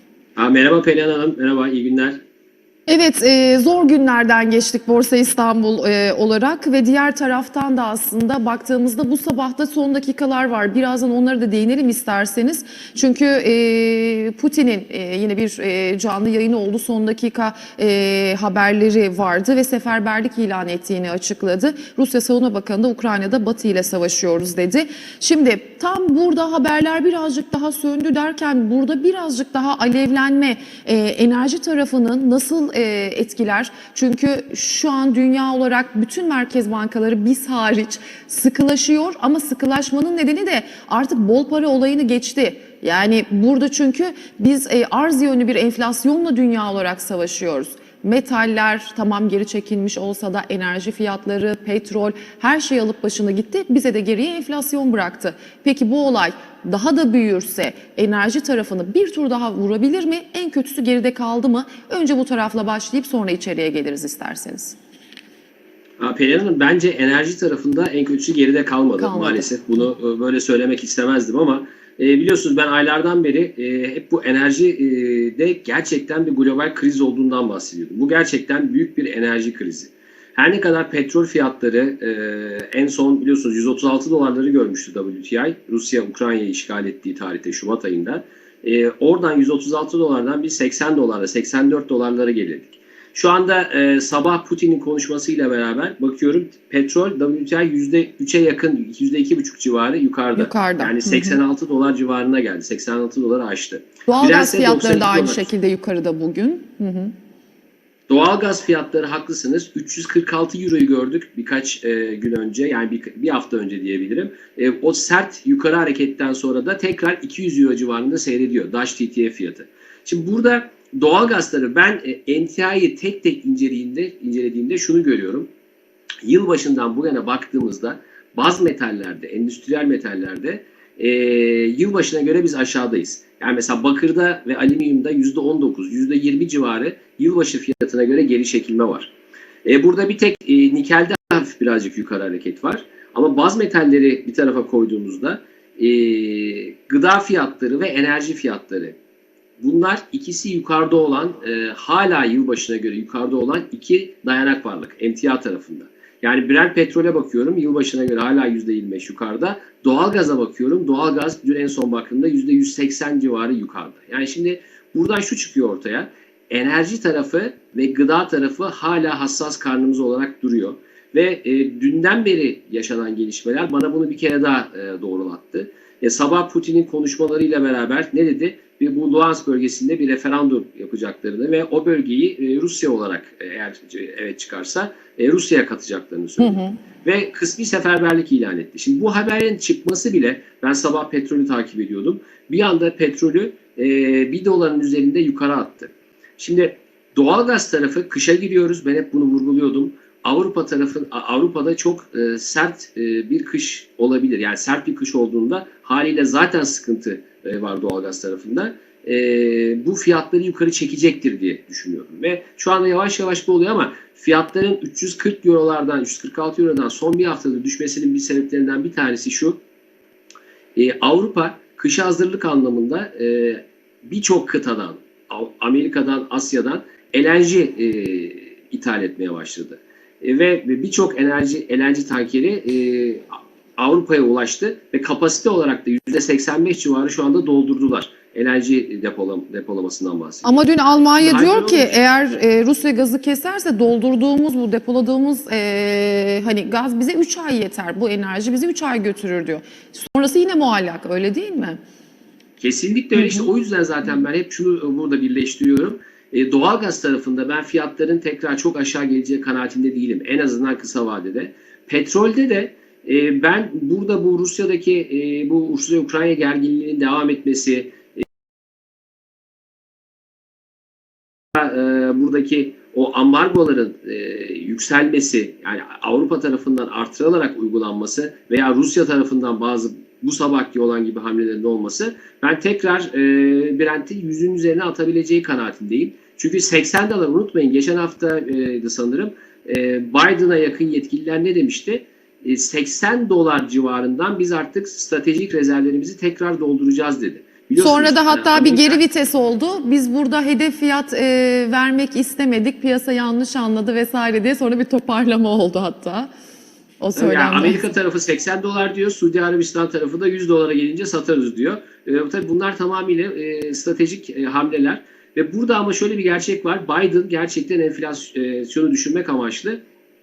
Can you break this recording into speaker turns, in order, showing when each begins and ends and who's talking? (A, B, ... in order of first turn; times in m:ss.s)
0:00.4-0:02.2 A
0:02.9-1:04.8 B
1:06.0-1:45.5 A
1:09.0-1:09.4 B
1:40.4-1:41.4 B
1:44.1-1:47.1 B
1:48.1-2:05.5 A
2:06.2-2:19.1 A
2:19.6-2:29.0 A
2:29.6-3:39.6 A
3:06.4-3:06.8 B
3:40.7-4:00.6 A
4:00.4-4:11.8 B
4:01.2-4:02.0 A
4:12.6-4:28.2 A
4:13.1-4:13.5 B
4:31.5-4:59.0 A
4:57.8-5:06.3 B
5:07.0-5:07.8 B
5:07.1-5:19.8 A